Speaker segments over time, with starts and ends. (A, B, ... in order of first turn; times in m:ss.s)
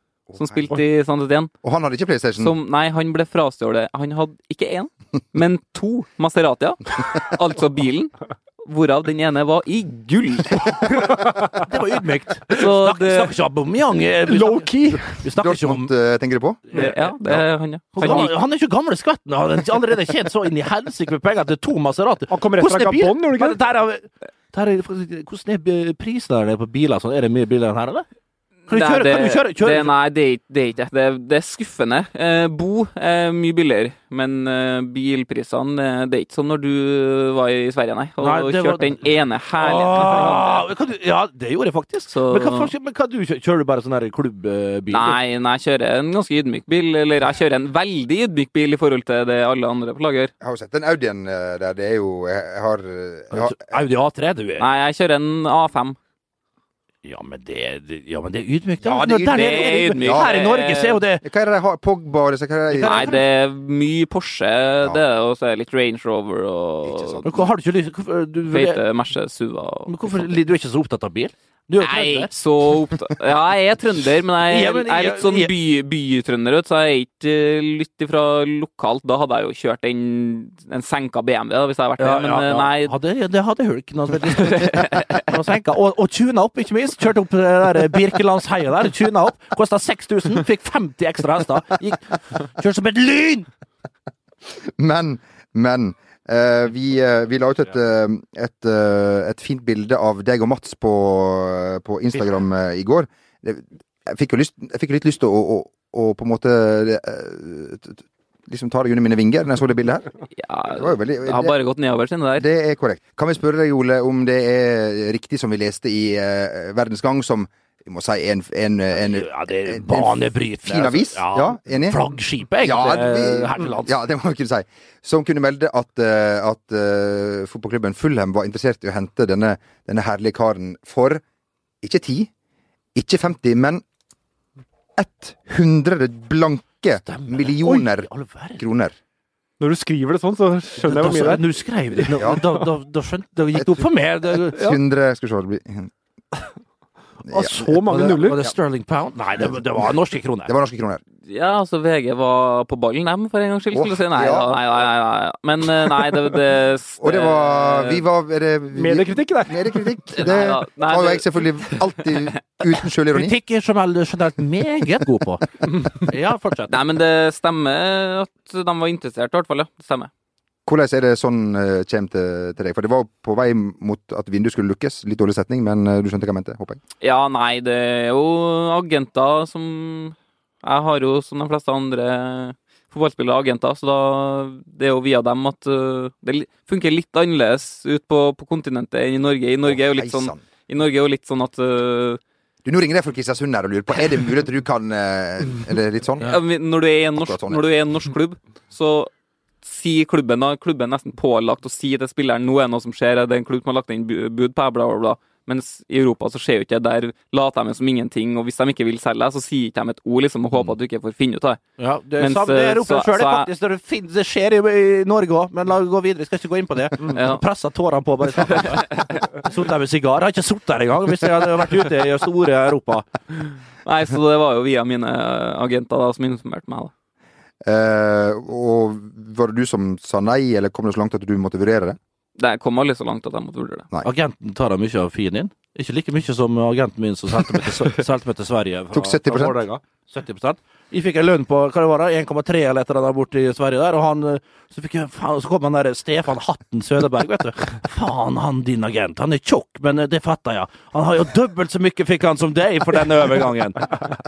0:00.3-0:00.8 A
0:00.4-0:01.5 B
0:01.6-0:02.5 A
0:02.4-0:08.1 B
0:08.6-0:10.7 B
0:10.8-0:15.9 C
0:12.5-0:13.3 B
0:14.3-0:15.0 D
0:15.4-0:16.6 A
0:16.7-0:18.3 B
0:17.9-0:28.0 C
0:22.3-0:23.6 D
0:28.7-0:29.9 C
0:28.7-0:40.6 B
0:38.2-0:39.0 C
0:39.6-0:45.2 C
0:42.1-0:42.7 B
0:44.9-0:50.3 B
0:50.4-0:53.6 A
0:53.3-0:54.7 C
0:54.6-0:56.0 B
0:57.0-1:01.2 C
0:58.8-1:01.0 B
1:00.0-1:00.3 A
1:01.2-1:03.2 A
1:02.7-1:03.2 C
1:02.8-1:07.2 B
1:06.8-1:07.5 A
1:07.2-1:08.8 C
1:08.5-1:10.4 B
1:09.9-1:12.3 C
1:11.8-1:22.9 B
1:14.4-1:15.5 C
1:22.0-1:33.5 C
1:24.3-1:25.2 B
1:34.8-1:50.1 A
1:50.4-1:52.4 B
1:50.7-1:51.5 A
1:52.4-2:02.0 A
1:59.0-2:03.9 C
2:02.6-2:11.2 A
2:11.8-2:12.3 A
2:12.9-2:13.8 A
2:15.0-2:19.0 A
2:17.0-2:18.6 C
2:19.6-2:21.4 D
2:20.8-2:24.7 C
2:23.5-2:23.9 A
2:24.4-2:25.9 A
2:27.3-2:27.7 A
2:27.3-2:28.4 D
2:27.7-2:30.5 C
2:30.4-2:31.0 A
2:31.2-2:38.0 B
2:33.7-2:34.6 A
2:37.0-2:43.3 A
2:38.7-2:39.6 D
2:40.1-2:41.8 B
2:43.1-2:45.5 C
2:46.0-2:46.8 C
2:46.7-2:50.1 B
2:50.6-2:56.8 A
2:57.0-3:12.2 B
3:09.6-3:10.4 A
3:12.6-3:16.4 A
3:16.2-3:19.1 B
3:17.1-3:17.6 A
3:19.6-3:31.6 B
3:31.8-3:43.1 C
3:32.2-3:33.5 B
3:37.1-3:37.4 B
3:38.9-3:39.2 B
3:43.8-3:46.9 B
3:47.6-3:52.0 A
3:52.4-3:53.9 B
3:54.0-4:13.9 C
3:58.9-3:59.6 A